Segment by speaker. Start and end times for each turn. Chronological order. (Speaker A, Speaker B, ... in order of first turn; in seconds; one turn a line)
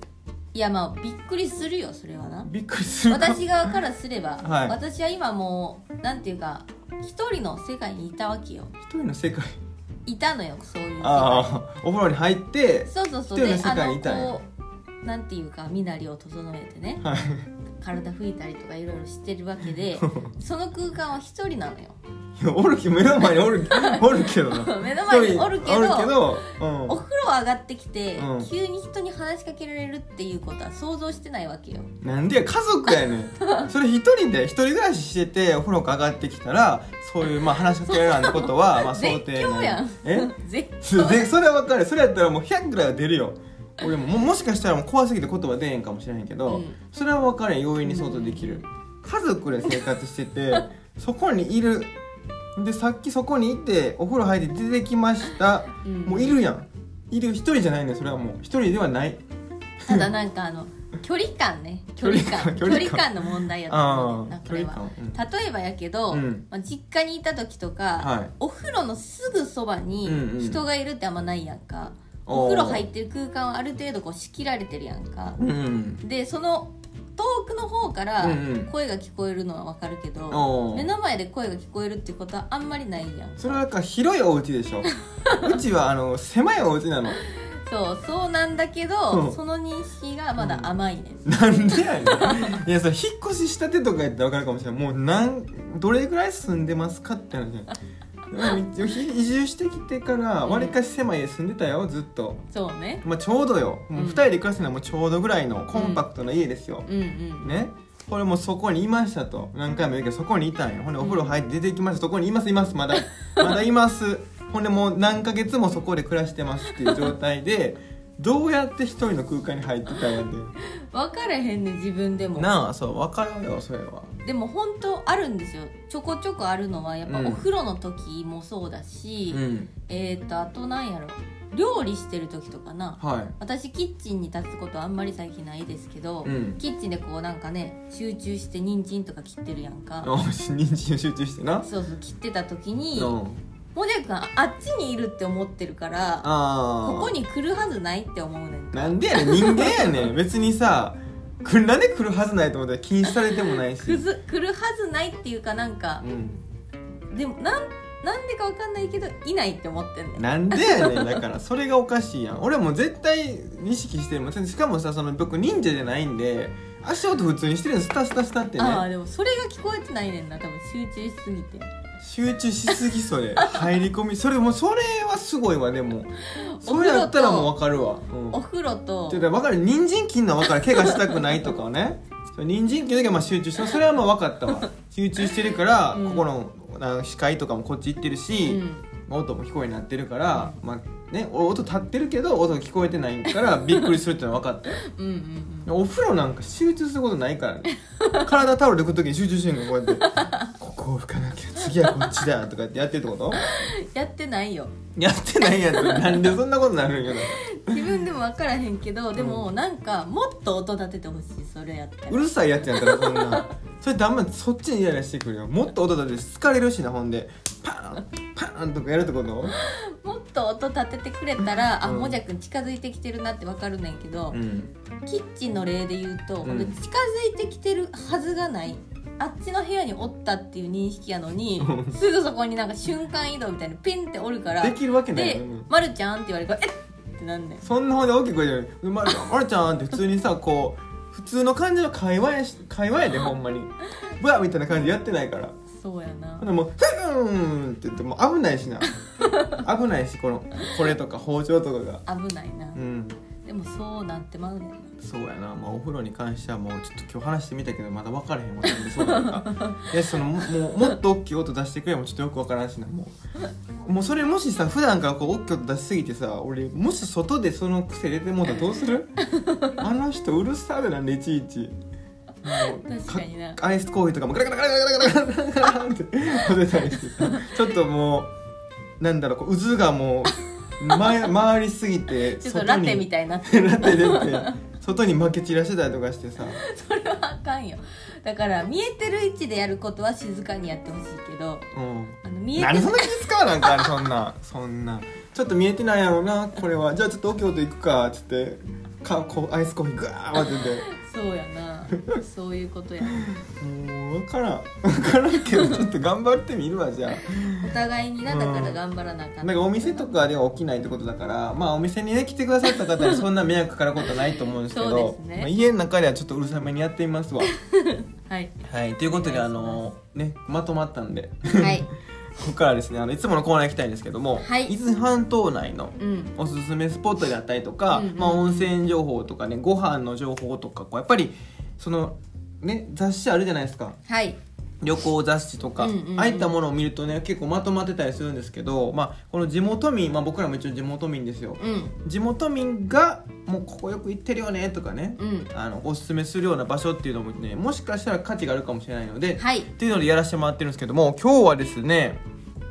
Speaker A: 0.5-2.5
Speaker B: 2.4-3.8
Speaker A: 3.1-8.7
Speaker B: 4.4-4.8
Speaker B: 8.8-9.6
Speaker A: 10.1-11.6
Speaker B: 11.0-14.4
Speaker A: 12.9-14.4
Speaker A: 15.0-17.0
Speaker B: 17.0-17.5
Speaker A: 17.8-22.0
Speaker B: 22.4-27.0
Speaker A: 23.7-31.9
Speaker B: 28.1-28.5
Speaker B: 32.0-51.9
Speaker A: 33.4-33.7
Speaker A: 37.9-41.3
Speaker A: 46.5-46.8
Speaker A: 47.8-48.6
Speaker B: 52.5-59.2
Speaker A: 55.8-56.4
Speaker A: 59.9-75.4
Speaker B: 62.0-65.2
Speaker B: 66.1-66.4
Speaker B: 68.0-68.3
Speaker B: 70.0-70.6
Speaker B: 72.2-72.8
Speaker B: 75.4-76.0
Speaker A: 76.0-83.6
Speaker B: 78.2-78.7
Speaker B: 80.3-80.9
Speaker B: 83.4-87.2
Speaker A: 85.1-85.5
Speaker A: 87.2-92.6
Speaker B: 89.1-89.4
Speaker B: 90.4-90.7
Speaker B: 91.2-97.7
Speaker B: 98.3-102.4
Speaker A: 100.4-100.8
Speaker A: 102.5-103.0
Speaker B: 103.0-106.9
Speaker A: 104.0-104.2
Speaker A: 105.7-106.0
Speaker A: 106.8-107.5
Speaker B: 107.4-120.5
Speaker A: 111.0-111.3
Speaker A: 113.0-113.6
Speaker A: 116.7-117.1
Speaker A: 120.6-122.5
Speaker B: 122.3-124.1
Speaker A: 124.2-140.1
Speaker B: 127.0-127.4
Speaker B: 129.3-129.7
Speaker B: 133.0-133.3
Speaker B: 136.2-136.6
Speaker B: 140.0-141.7
Speaker A: 141.6-143.2
Speaker B: 142.9-143.4
Speaker A: 143.7-146.3
Speaker B: 146.2-147.2
Speaker A: 146.8-150.0
Speaker B: 148.7-154.0
Speaker A: 153.1-156.1
Speaker B: 156.0-156.4
Speaker A: 157.1-161.2
Speaker B: 160.2-168.8
Speaker A: 168.6-171.7
Speaker B: 172.0-176.1
Speaker A: 173.4-173.7
Speaker A: 176.3-177.5
Speaker B: 176.6-178.4
Speaker A: 178.3-179.2
Speaker B: 179.1-194.8
Speaker A: 180.6-181.2
Speaker A: 185.9-186.3
Speaker A: 188.4-188.9
Speaker A: 190.3-190.6
Speaker A: 193.5-193.9
Speaker A: 194.7-195.7
Speaker B: 195.7-203.5
Speaker A: 197.7-198.3
Speaker A: 199.8-200.5
Speaker A: 201.6-202.2
Speaker A: 203.3-204.7
Speaker B: 204.9-207.9
Speaker A: 205.6-206.4
Speaker A: 207.1-213.5
Speaker B: 209.2-209.4
Speaker B: 212.1-219.6
Speaker A: 219.5-224.4
Speaker B: 221.8-222.2
Speaker B: 224.3-224.7
Speaker A: 225.1-237.6
Speaker B: 226.4-226.8
Speaker B: 231.6-232.0
Speaker B: 234.6-235.7
Speaker B: 237.6-245.6
Speaker A: 245.7-246.5
Speaker B: 246.4-248.9
Speaker A: 249.2-249.6
Speaker B: 249.5-252.0
Speaker A: 252.1-252.8
Speaker B: 252.7-253.2
Speaker A: 253.4-254.8
Speaker B: 255.0-263.1
Speaker A: 258.7-260.5
Speaker B: 263.8-269.1
Speaker A: 269.2-269.7
Speaker B: 269.8-271.7
Speaker B: 272.4-278.3
Speaker A: 272.4-273.6
Speaker A: 276.9-277.6
Speaker B: 279.0-286.6
Speaker A: 282.2-284.6
Speaker A: 286.4-291.7
Speaker B: 291.7-300.9
Speaker A: 292.2-293.9
Speaker A: 300.4-303.4
Speaker B: 303.3-308.8
Speaker A: 305.5-305.9
Speaker A: 307.1-310.1
Speaker B: 309.4-317.5
Speaker A: 312.6-313.2
Speaker A: 314.0-315.5
Speaker A: 317.6-319.8
Speaker B: 318.6-334.0
Speaker A: 321.6-321.9
Speaker A: 324.4-324.8
Speaker A: 326.0-326.3
Speaker A: 327.9-328.7
Speaker A: 334.1-334.4
Speaker B: 334.8-352.2
Speaker A: 335.8-336.5
Speaker A: 341.6-341.9
Speaker A: 345.2-345.5
Speaker A: 349.4-349.7